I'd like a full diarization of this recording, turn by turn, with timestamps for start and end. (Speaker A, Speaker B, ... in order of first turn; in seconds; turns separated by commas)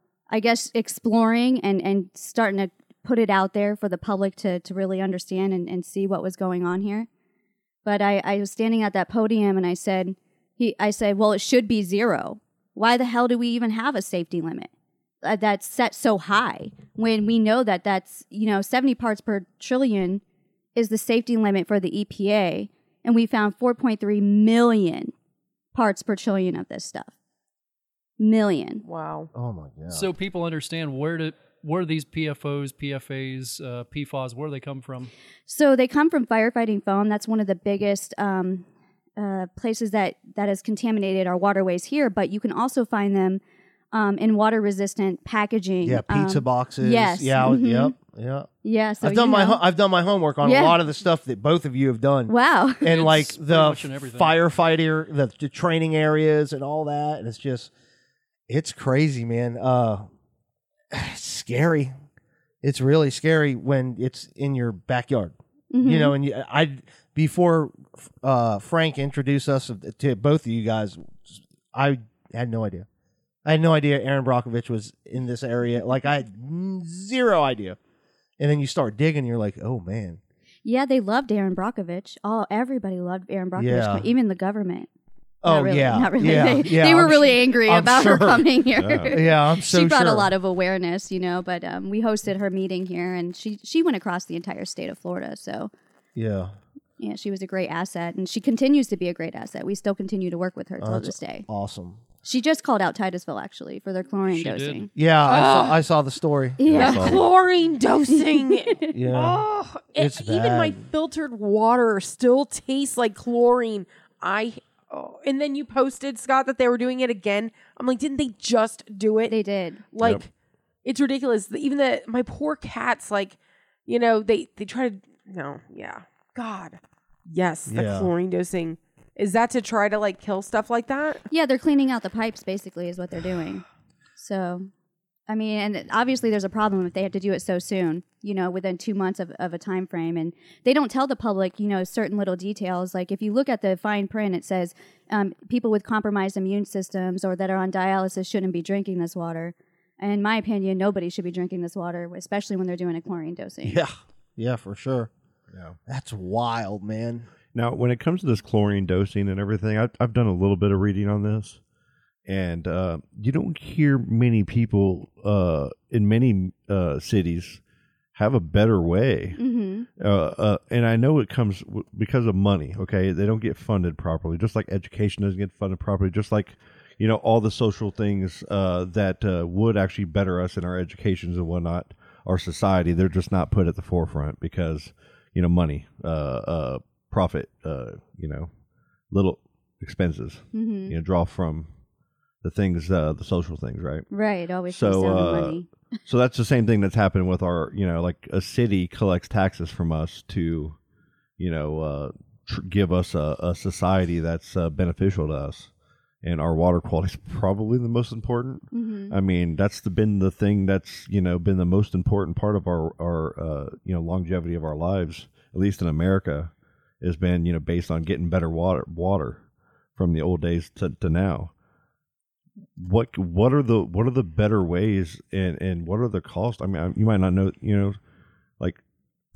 Speaker A: 0.3-7.1, Speaker A: 7.8-14.7, Speaker A: 15.2-20.2, Speaker A: 20.8-25.1, Speaker A: 25.7-27.1, Speaker A: 28.2-28.8, Speaker B: 28.8-29.3, Speaker C: 29.3-30.1, Speaker D: 29.9-35.1, Speaker A: 35.5-38.6, Speaker A: 39.2-43.4, Speaker A: 43.9-47.9, Speaker C: 45.8-48.5, Speaker A: 48.6-49.6, Speaker C: 49.0-57.7, Speaker A: 50.4-50.8, Speaker A: 52.3-53.0, Speaker D: 52.9-54.4, Speaker C: 58.5-60.1, Speaker C: 60.9-61.9, Speaker C: 62.6-72.9, Speaker A: 65.7-66.2, Speaker C: 73.5-77.8, Speaker C: 78.4-80.2, Speaker A: 80.7-84.9, Speaker C: 83.6-84.1, Speaker C: 85.4-88.5, Speaker A: 85.5-95.7, Speaker E: 88.8-89.2, Speaker C: 89.1-90.3, Speaker C: 96.2-96.5, Speaker A: 97.0-101.5, Speaker C: 100.8-102.0, Speaker A: 102.2-104.9, Speaker D: 104.3-104.8, Speaker C: 105.0-106.6, Speaker B: 105.2-105.8, Speaker A: 106.6-107.2, Speaker E: 106.7-107.2, Speaker B: 106.7-119.4, Speaker A: 108.1-108.9, Speaker C: 108.9-109.4, Speaker C: 110.0-110.8, Speaker A: 119.3-119.8, Speaker B: 119.9-120.3, Speaker B: 120.8-131.2, Speaker C: 127.7-128.1, Speaker A: 131.3-133.6, Speaker A: 134.2-134.7, Speaker A: 135.3-153.8, Speaker C: 153.6-155.1, Speaker E: 155.5-155.8, Speaker C: 155.9-157.3, Speaker E: 157.5-161.6, Speaker E: 162.3-167.6, Speaker E: 168.2-169.4, Speaker A: 169.4-169.9, Speaker E: 170.0-188.5, Speaker E: 189.1-191.7, Speaker A: 190.5-191.0, Speaker E: 192.4-194.1, Speaker A: 194.1-195.7, Speaker E: 194.7-200.8, Speaker E: 201.4-205.7, Speaker E: 206.2-219.4, Speaker A: 208.7-209.2, Speaker E: 220.0-221.5, Speaker E: 222.8-228.0